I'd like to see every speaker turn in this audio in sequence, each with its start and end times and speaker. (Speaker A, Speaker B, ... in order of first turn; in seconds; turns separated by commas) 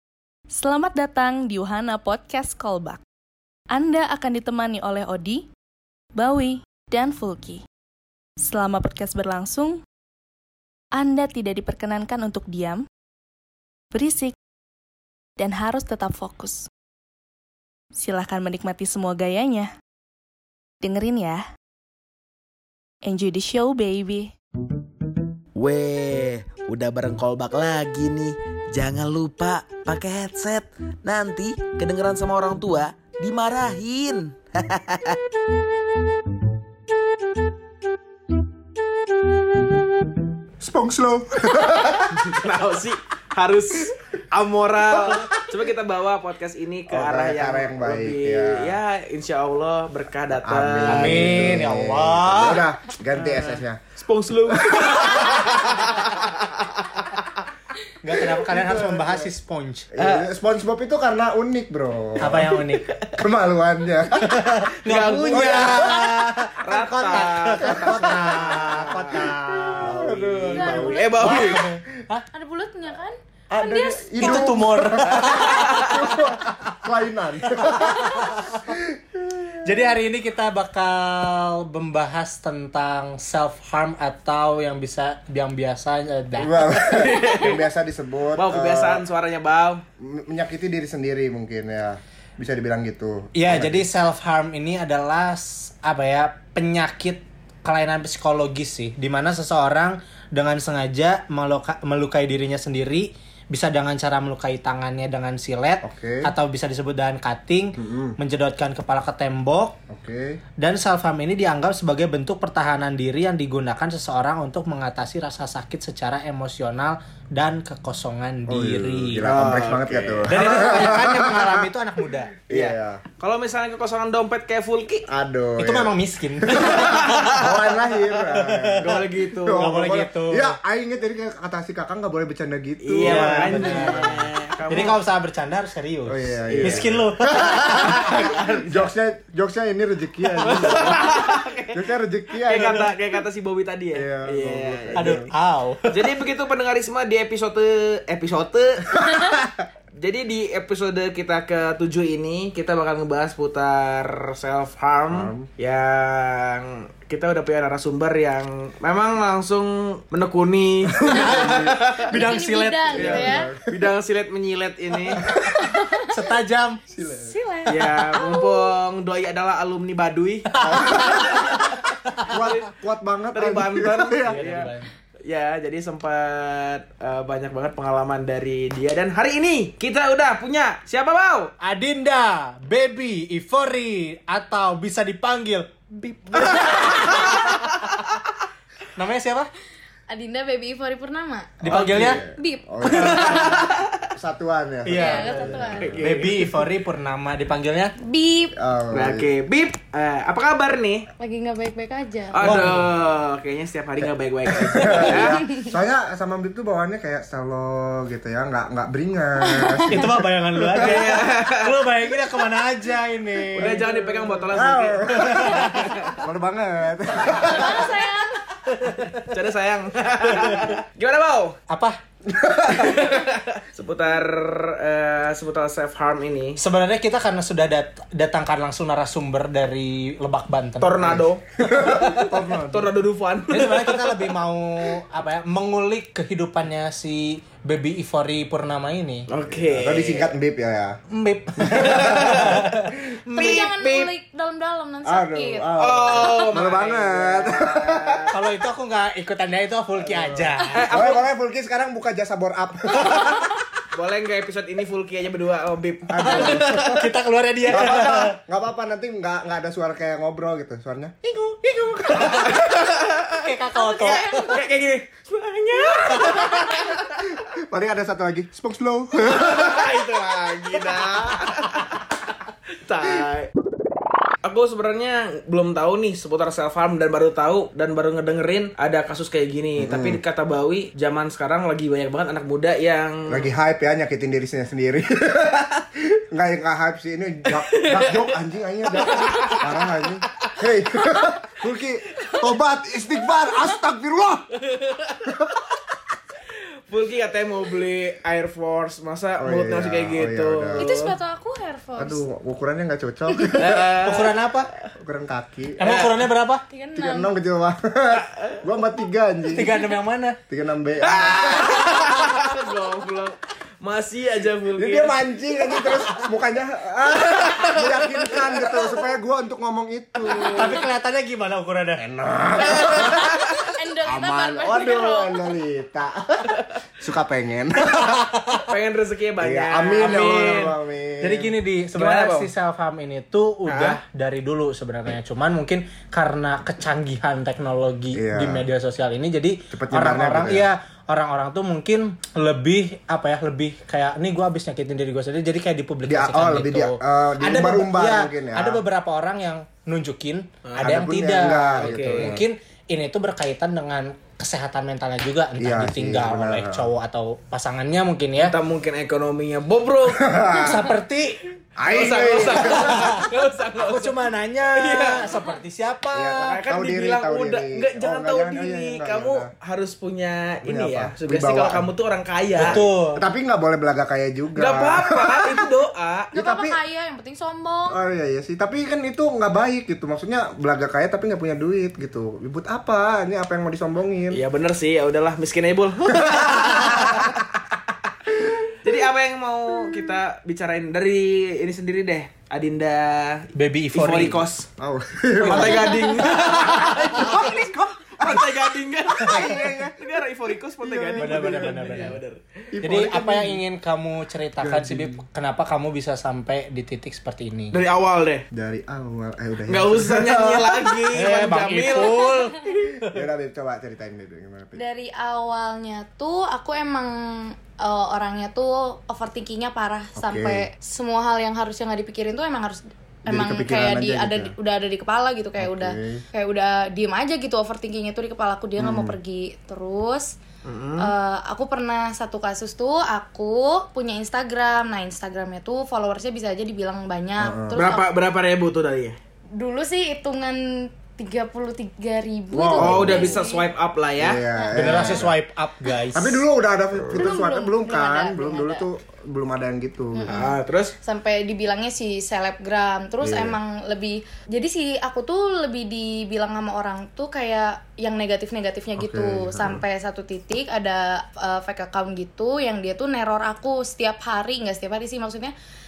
Speaker A: 0.5-3.0, Speaker A: 3.7-5.5, Speaker A: 6.1-7.6, Speaker A: 8.4-9.8, Speaker A: 10.9-12.8, Speaker A: 13.9-14.3, Speaker A: 15.4-16.7, Speaker A: 17.9-19.7, Speaker A: 20.8-21.4, Speaker A: 23.0-24.3, Speaker B: 25.6-35.2, Speaker C: 40.6-42.3, Speaker D: 42.0-51.4, Speaker C: 44.9-45.4, Speaker C: 46.9-48.8, Speaker C: 50.4-53.8, Speaker E: 50.9-52.6, Speaker D: 53.1-57.3, Speaker C: 54.5-55.6, Speaker E: 58.0-59.9, Speaker C: 58.5-59.3, Speaker C: 59.9-62.5, Speaker D: 60.0-60.3, Speaker E: 62.2-62.9, Speaker D: 62.3-63.2, Speaker C: 63.1-64.7, Speaker E: 64.2-70.2, Speaker D: 64.8-71.7, Speaker C: 65.3-66.1, Speaker C: 67.2-71.6, Speaker F: 70.5-71.5, Speaker E: 71.2-72.2, Speaker F: 72.3-74.5, Speaker C: 73.5-79.8, Speaker E: 74.2-76.2, Speaker D: 75.1-75.9, Speaker E: 77.6-78.6, Speaker E: 79.6-87.0, Speaker C: 86.4-89.0, Speaker D: 86.8-87.7, Speaker D: 88.3-89.8, Speaker C: 90.0-93.9, Speaker E: 93.3-109.8, Speaker C: 105.8-106.3, Speaker C: 107.8-108.2, Speaker C: 109.9-110.4, Speaker E: 110.6-119.3, Speaker C: 118.5-121.7, Speaker D: 119.2-121.1, Speaker E: 120.3-122.3, Speaker C: 122.5-123.0, Speaker D: 122.5-125.0, Speaker C: 125.1-134.3, Speaker E: 125.6-127.4, Speaker D: 126.6-127.5, Speaker E: 128.3-130.6, Speaker D: 128.8-129.7, Speaker D: 132.8-135.0, Speaker E: 133.0-138.4, Speaker C: 136.1-142.9, Speaker D: 136.5-136.9, Speaker D: 140.4-141.9, Speaker D: 142.4-145.2, Speaker C: 143.9-145.3, Speaker E: 144.9-146.1, Speaker D: 145.9-162.1, Speaker C: 155.1-155.5, Speaker C: 161.0-161.8, Speaker E: 161.1-163.2, Speaker F: 162.1-163.5, Speaker C: 162.9-163.7, Speaker D: 163.0-165.2, Speaker C: 165.2-165.8, Speaker F: 165.5-166.2, Speaker E: 166.1-166.8, Speaker C: 166.9-167.3, Speaker F: 167.2-168.7, Speaker D: 167.7-171.5, Speaker E: 170.5-171.5, Speaker C: 170.6-171.7, Speaker D: 172.2-172.7, Speaker C: 172.2-174.7, Speaker D: 173.3-174.7, Speaker E: 174.3-174.9, Speaker D: 175.2-181.5, Speaker E: 181.6-188.0, Speaker D: 186.4-187.6, Speaker E: 188.9-189.5, Speaker F: 190.1-191.6, Speaker E: 191.6-192.2, Speaker C: 191.6-196.3, Speaker F: 192.2-193.4, Speaker D: 192.8-194.1, Speaker E: 194.8-197.9, Speaker F: 194.9-195.9, Speaker D: 195.8-196.5, Speaker F: 198.0-198.5, Speaker C: 198.6-199.3, Speaker D: 198.9-201.1, Speaker F: 201.2-202.4, Speaker D: 202.3-205.4, Speaker E: 202.4-202.9, Speaker C: 202.5-202.8, Speaker C: 204.5-210.2, Speaker F: 209.4-210.0, Speaker E: 209.9-214.0, Speaker D: 210.7-211.8, Speaker D: 213.5-216.1, Speaker C: 213.6-213.9, Speaker C: 214.5-218.0, Speaker E: 215.1-216.1, Speaker F: 217.3-218.4, Speaker E: 218.7-219.2, Speaker D: 219.1-221.6, Speaker E: 220.4-220.7, Speaker E: 221.7-222.0, Speaker C: 222.2-223.1, Speaker D: 222.7-226.6, Speaker E: 226.6-232.3, Speaker D: 230.8-231.4, Speaker C: 231.1-232.9, Speaker D: 232.0-234.3, Speaker E: 233.5-239.3, Speaker D: 239.3-240.3, Speaker C: 239.4-241.0, Speaker E: 241.1-243.7, Speaker C: 241.6-242.9, Speaker D: 241.8-242.6, Speaker F: 243.3-245.7, Speaker D: 243.3-244.1, Speaker C: 245.0-248.3, Speaker D: 245.8-248.3, Speaker E: 248.3-250.9, Speaker C: 250.0-253.4, Speaker D: 250.7-251.2, Speaker D: 253.9-257.1, Speaker C: 256.1-257.0, Speaker E: 256.2-258.4, Speaker C: 257.6-262.6, Speaker E: 261.9-262.6, Speaker D: 262.2-267.2, Speaker E: 263.3-264.6, Speaker F: 263.8-264.5, Speaker E: 266.1-266.6, Speaker C: 267.5-269.9, Speaker D: 269.2-272.0, Speaker C: 270.9-271.4, Speaker D: 272.8-273.5, Speaker D: 274.4-283.5, Speaker C: 279.8-280.2, Speaker C: 283.3-294.5, Speaker D: 287.5-288.4, Speaker D: 288.9-289.8, Speaker D: 294.6-295.2, Speaker C: 295.2-295.7, Speaker D: 296.9-300.9, Speaker C: 299.4-301.1, Speaker F: 300.8-302.2, Speaker C: 302.0-304.0, Speaker D: 303.5-304.5, Speaker E: 304.0-304.7, Speaker C: 305.0-306.0, Speaker E: 305.8-306.6, Speaker D: 305.8-306.2, Speaker F: 306.7-307.3, Speaker C: 306.9-309.8, Speaker E: 309.5-310.4, Speaker C: 310.5-312.0, Speaker D: 311.0-315.2, Speaker C: 314.8-320.8, Speaker D: 317.3-318.7, Speaker D: 320.2-320.6, Speaker E: 320.4-322.0, Speaker C: 322.0-328.3, Speaker D: 322.8-323.5, Speaker F: 323.7-325.6, Speaker E: 327.9-328.6, Speaker D: 328.6-330.7, Speaker C: 329.4-331.5, Speaker E: 330.0-330.7, Speaker E: 331.2-358.5, Speaker D: 331.9-332.5, Speaker D: 333.6-334.0, Speaker C: 338.1-338.6, Speaker C: 339.7-340.7, Speaker C: 346.1-348.8, Speaker D: 350.6-351.0, Speaker C: 350.8-352.4, Speaker D: 351.8-352.4, Speaker C: 355.6-356.9, Speaker D: 358.4-360.3, Speaker C: 360.1-360.9, Speaker E: 360.5-361.4, Speaker C: 361.8-363.2, Speaker D: 361.9-364.2, Speaker E: 362.6-366.6, Speaker D: 364.7-365.4, Speaker C: 366.1-369.5, Speaker D: 366.4-372.8, Speaker C: 370.6-371.9, Speaker C: 372.5-375.6, Speaker E: 372.6-373.2, Speaker D: 374.6-376.3, Speaker F: 376.3-378.0, Speaker C: 376.3-376.8, Speaker C: 377.9-384.4, Speaker D: 384.3-387.4, Speaker C: 386.2-387.3, Speaker D: 388.8-394.7, Speaker E: 393.6-394.4, Speaker C: 394.8-396.5, Speaker D: 395.4-402.4, Speaker E: 395.5-395.9, Speaker F: 395.8-396.2, Speaker C: 397.1-398.4, Speaker C: 399.2-400.0, Speaker C: 400.8-402.1, Speaker E: 401.1-402.2, Speaker C: 402.7-403.6, Speaker E: 402.8-407.8, Speaker C: 404.6-405.2, Speaker D: 407.7-408.4, Speaker C: 408.5-411.2, Speaker D: 409.7-412.4, Speaker E: 411.1-413.2, Speaker F: 412.1-412.6, Speaker C: 413.0-414.8, Speaker F: 414.8-430.4, Speaker C: 420.1-420.6, Speaker C: 423.3-424.5, Speaker C: 425.6-426.2, Speaker C: 428.8-429.2, Speaker D: 430.6-431.1, Speaker F: 431.0-438.1, Speaker C: 437.4-437.8, Speaker D: 437.7-439.2, Speaker F: 439.5-443.7, Speaker C: 442.5-443.4, Speaker D: 442.8-444.4, Speaker C: 444.2-445.4, Speaker F: 444.5-445.2, Speaker E: 444.7-446.4, Speaker C: 446.1-450.5, Speaker F: 447.1-448.9, Speaker F: 450.1-465.5, Speaker D: 450.3-450.9, Speaker C: 453.2-453.6, Speaker C: 459.0-459.8